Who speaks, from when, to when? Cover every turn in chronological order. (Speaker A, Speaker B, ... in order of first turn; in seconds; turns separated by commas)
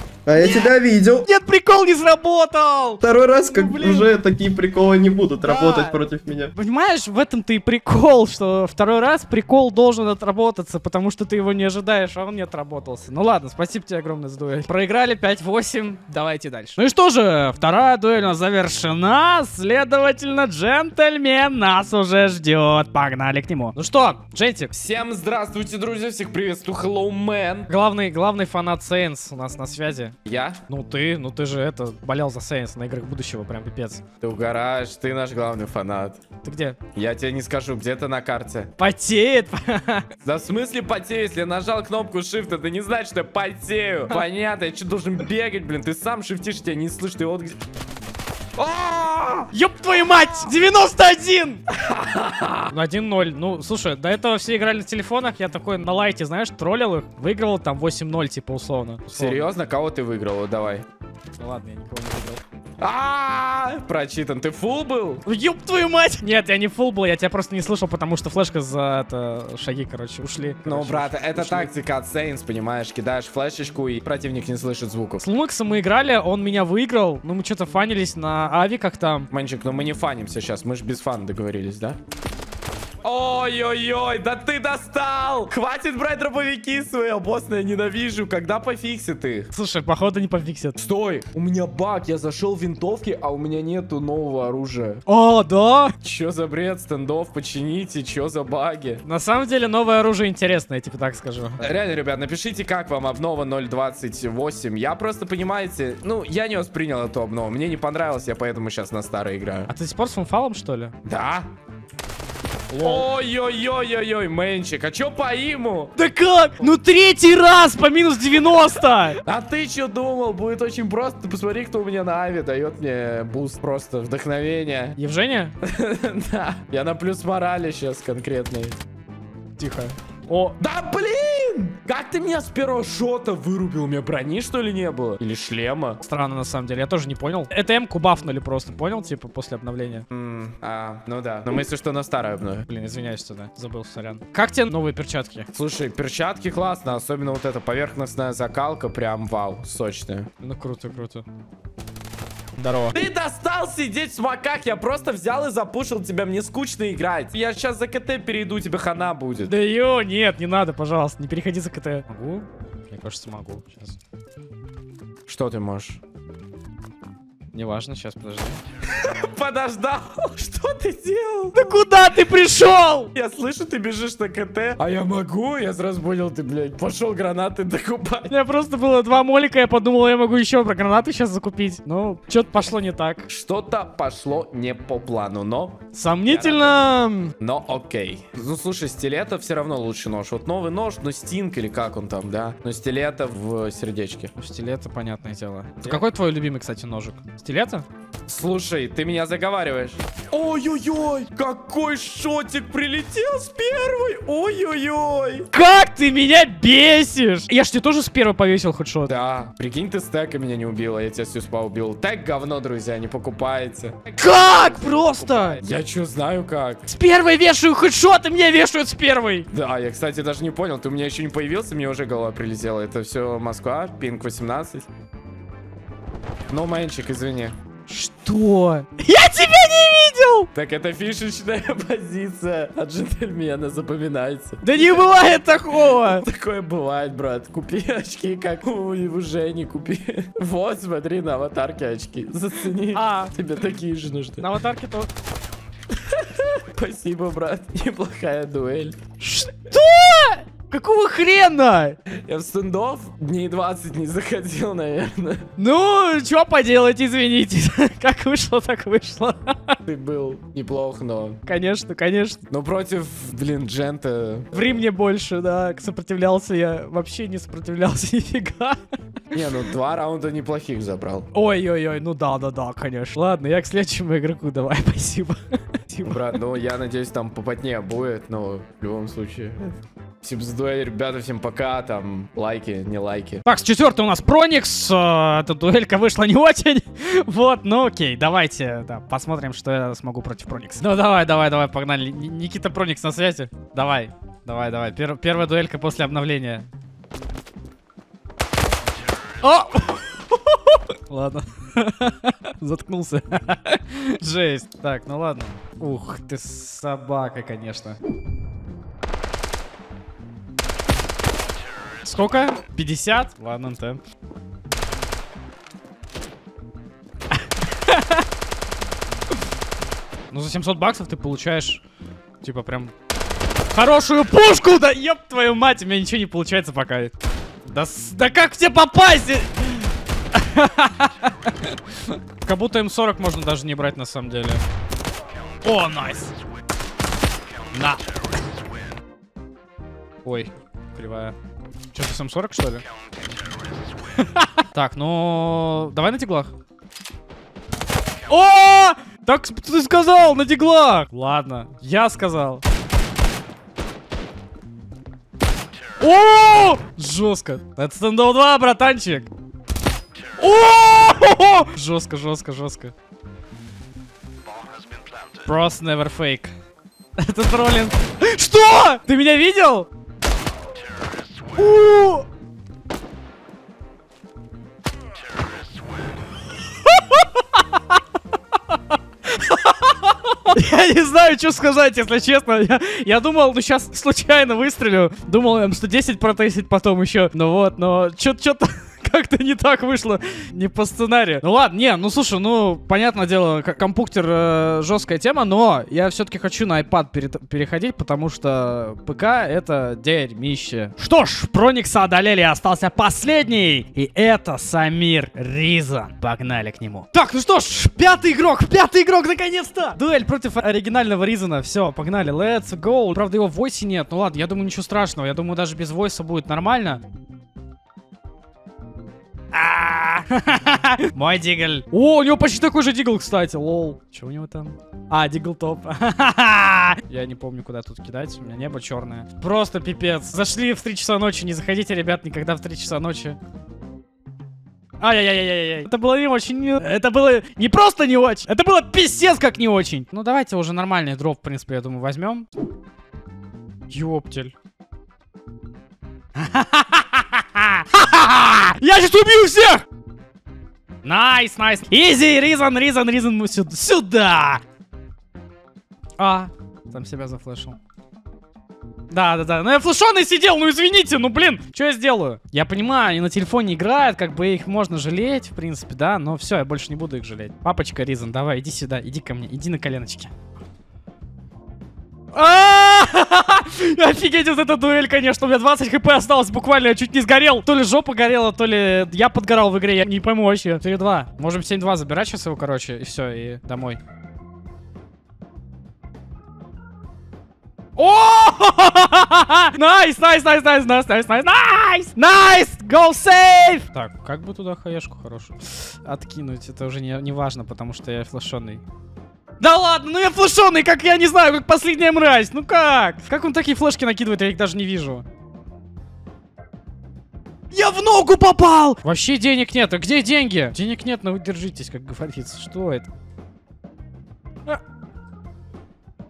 Speaker A: 0.3-1.3, Speaker B: 0.4-0.7, Speaker B: 1.2-4.1, Speaker A: 3.0-6.5, Speaker B: 5.4-6.0, Speaker B: 6.6-24.7, Speaker C: 24.7-27.7, Speaker B: 27.7-30.1, Speaker C: 30.3-30.6, Speaker B: 30.7-34.0, Speaker C: 34.2-36.2, Speaker B: 36.4-36.8, Speaker C: 37.0-38.7, Speaker B: 38.8-40.1, Speaker C: 40.2-47.6, Speaker C: 48.6-49.5, Speaker B: 49.5-51.6, Speaker C: 51.8-52.7, Speaker B: 52.7-59.5, Speaker C: 59.1-60.9, Speaker B: 61.4-62.4, Speaker C: 62.8-65.2, Speaker B: 65.2-71.7, Speaker C: 70.7-75.2, Speaker B: 75.2-79.3, Speaker C: 79.3-82.0, Speaker C: 83.0-89.5, Speaker B: 89.5-90.8, Speaker C: 90.8-95.0, Speaker B: 95.1-95.9, Speaker C: 96.0-99.0, Speaker B: 99.0-101.7, Speaker C: 101.6-109.7, Speaker B: 109.7-111.0, Speaker C: 111.0-111.5, Speaker B: 112.7-113.1, Speaker C: 112.7-116.0, Speaker B: 116.0-119.2, Speaker C: 119.2-125.0, Speaker B: 125.0-125.5, Speaker C: 125.6-128.8, Speaker B: 129.6-130.6, Speaker C: 130.6-136.0, Speaker B: 136.0-140.1, Speaker C: 140.1-142.7, Speaker B: 142.7-145.5, Speaker C: 145.5-150.3, Speaker B: 150.4-151.2, Speaker B: 152.6-153.0, Speaker C: 152.9-159.5, Speaker B: 159.5-164.0, Speaker C: 165.3-166.0, Speaker B: 167.5-168.6, Speaker C: 168.9-171.6, Speaker B: 171.5-173.1, Speaker C: 173.2-178.3, Speaker B: 178.3-183.3, Speaker C: 183.3-186.8, Speaker B: 185.9-187.3, Speaker C: 187.4-194.3, Speaker B: 194.4-197.9, Speaker C: 195.8-196.1, Speaker C: 198.3-205.5, Speaker B: 205.5-209.1, Speaker C: 209.1-216.9, Speaker B: 214.2-215.6, Speaker B: 216.9-219.5, Speaker C: 219.5-224.9, Speaker C: 226.5-227.6, Speaker B: 227.9-230.5, Speaker C: 230.5-235.0, Speaker B: 234.6-236.3, Speaker C: 235.8-244.5, Speaker B: 242.9-243.3, Speaker B: 244.4-245.1, Speaker C: 246.1-249.0, Speaker B: 249.2-252.0, Speaker C: 252.2-255.5, Speaker B: 255.6-259.8, Speaker C: 259.9-261.4, Speaker B: 261.4-262.4, Speaker C: 262.5-264.8, Speaker B: 264.5-268.8, Speaker C: 269.3-271.3, Speaker B: 271.3-276.2, Speaker C: 276.0-283.4, Speaker B: 283.4-296.7, Speaker B: 299.4-308.0, Speaker B: 312.0-314.0, Speaker B: 317.9-318.2, Speaker B: 320.3-321.8, Speaker B: 322.4-322.9, Speaker B: 323.7-327.1, Speaker B: 327.7-334.6, Speaker B: 335.6-336.3, Speaker B: 337.7-338.0, Speaker B: 340.2-341.4, Speaker B: 341.9-342.8, Speaker B: 344.4-346.5, Speaker B: 348.3-352.6, Speaker B: 356.0-359.3, Speaker B: 360.4-362.9, Speaker B: 365.4-366.5, Speaker B: 367.2-369.9, Speaker B: 371.5-372.2, Speaker B: 376.9-377.6, Speaker B: 379.3-417.0, Speaker B: 419.5-433.4, Speaker B: 435.0-442.5, Speaker B: 443.9-444.5, Speaker B: 446.4-449.8, Speaker B: 451.0-454.6, Speaker B: 456.2-457.8, Speaker B: 459.1-470.3, Speaker B: 472.3-484.0, Speaker B: 488.0-498.8, Speaker B: 499.6-505.2, Speaker B: 507.7-513.1